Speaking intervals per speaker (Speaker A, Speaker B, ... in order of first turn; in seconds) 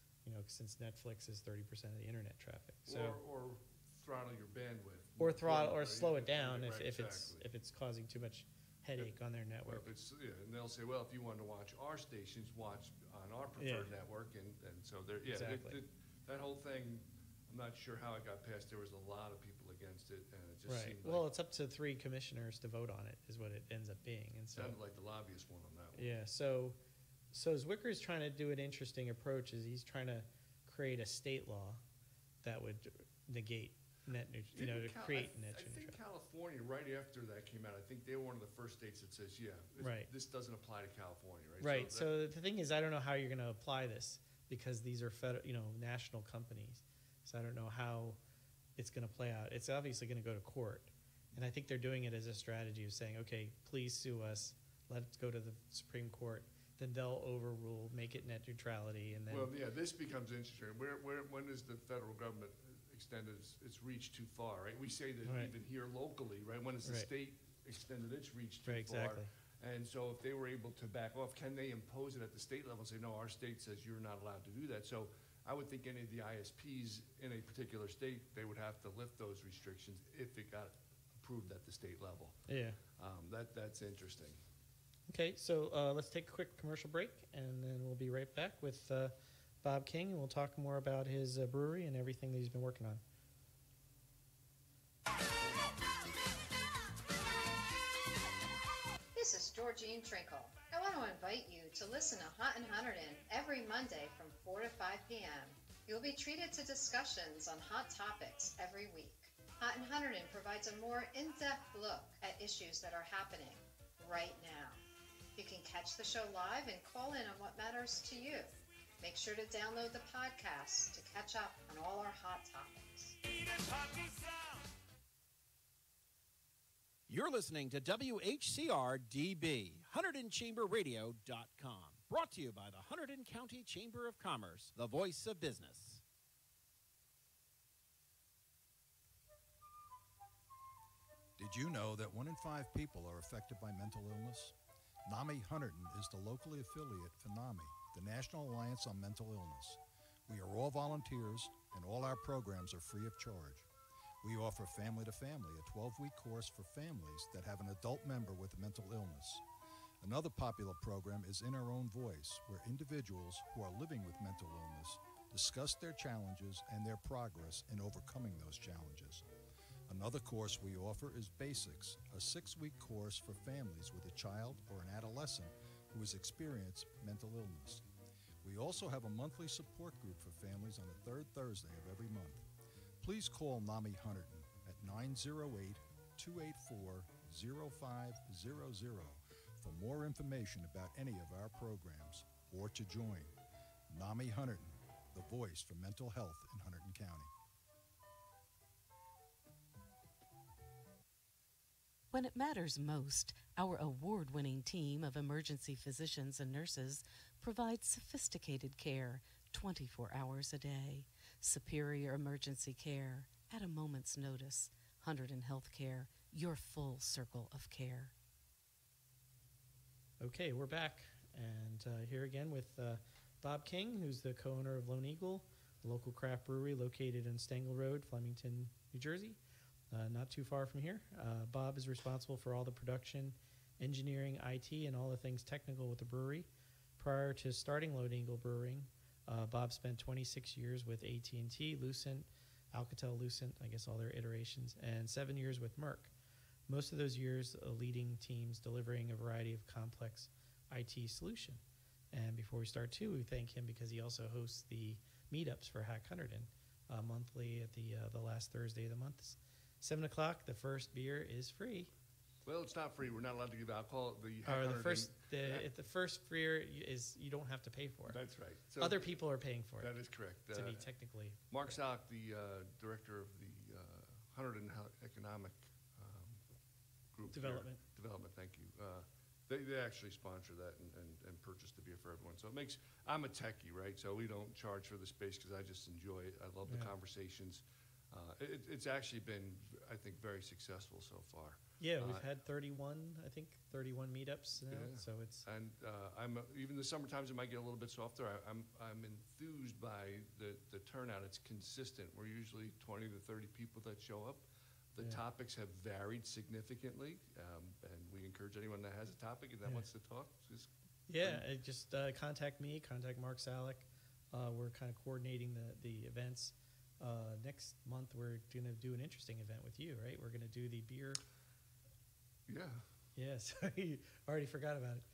Speaker A: 0.2-3.2, 5.2-9.9, 13.6-13.9, 15.3-15.8, 20.7-24.8, 25.9-26.8, 27.3-31.8, 32.4-36.0, 39.8-40.1, 41.6-48.2, 48.8-59.5, 65.3-65.5, 68.7-69.3, 82.5-82.8, 85.1-93.0, 220.2-229.4, 229.9-236.5, 237.0-246.1, 246.7-251.6, 252.1-261.9, 264.5-268.2, 268.8-269.9, 270.5-271.5, 277.3-277.8, 291.8-295.5, 311.1-321.2, 323.2-325.0
Speaker B: 2.9-7.4, 9.7-21.2, 24.6-26.1, 34.5-42.1, 59.3-82.4, 83.0-84.4, 262.5-265.6, 268.1-269.2, 269.8-270.9, 271.5-276.4, 277.1-292.3, 294.7-304.4, 304.9-310.7, 322.5-322.8
Speaker C: 99.2-114.8, 115.3-123.2
Speaker D: 127.1-136.0
Speaker E: 141.4-144.6, 145.1-153.7, 154.2-159.4, 160.0-169.2, 169.9-177.8, 178.4-182.4, 183.0-193.3, 193.9-197.3
Speaker F: 202.1-218.1